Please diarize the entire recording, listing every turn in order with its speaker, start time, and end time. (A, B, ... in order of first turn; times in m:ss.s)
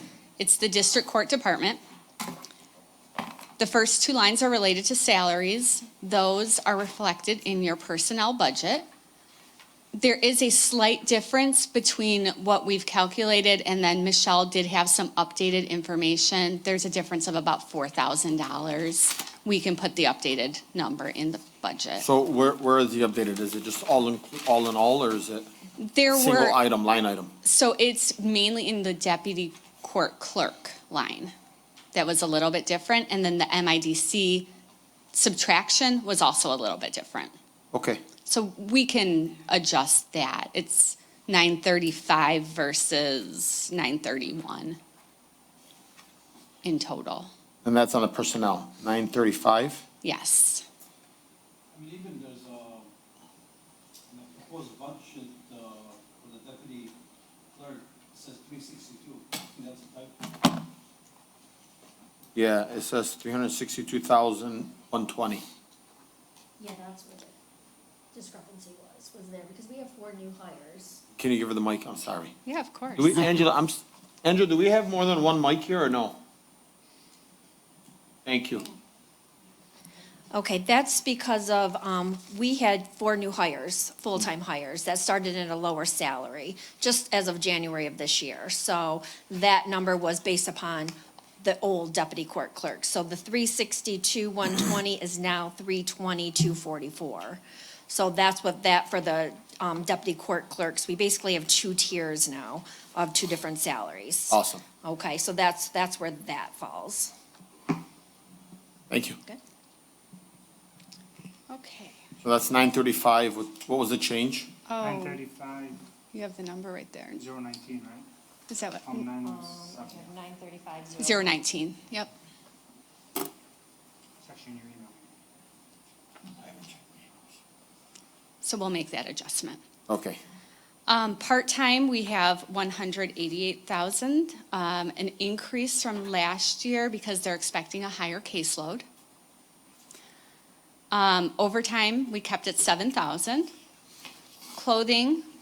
0:00.4-0:01.8 A
0:03.6-0:08.9 A
0:09.9-0:22.1 A
0:22.0-0:25.5 B
0:25.8-0:26.6 A
0:26.1-0:27.3 B
0:27.4-0:31.3 A
0:31.9-0:34.5 A
0:35.1-0:37.3 A
0:37.7-0:38.0 B
0:38.3-0:44.8 A
0:46.6-0:47.3 A
0:47.6-0:49.8 B
0:50.0-0:50.6 A
0:51.7-0:52.9 C
0:54.1-0:56.9 C
0:57.6-1:00.4 C
1:02.4-1:05.4 B
1:06.6-1:07.3 D
1:08.1-1:11.0 D
1:11.2-1:12.4 B
1:12.5-1:13.1 A
1:13.0-1:16.2 B
1:18.2-1:18.7 B
1:20.3-1:47.1 D
1:44.3-1:44.6 B
1:48.9-1:49.2 B
1:51.5-1:52.0 A
1:52.2-1:54.5 B
1:54.7-1:55.2 A
1:54.8-1:55.8 E
1:56.1-1:57.2 A
1:57.2-1:58.1 E
1:58.5-1:59.1 A
1:58.8-2:00.1 E
1:59.2-2:01.4 D
2:01.0-2:02.1 A
2:04.2-2:05.1 E
2:08.4-2:09.6 A
2:09.9-2:10.2 B
2:10.9-2:18.8 A
2:20.9-2:23.5 A
2:24.5-2:25.3 A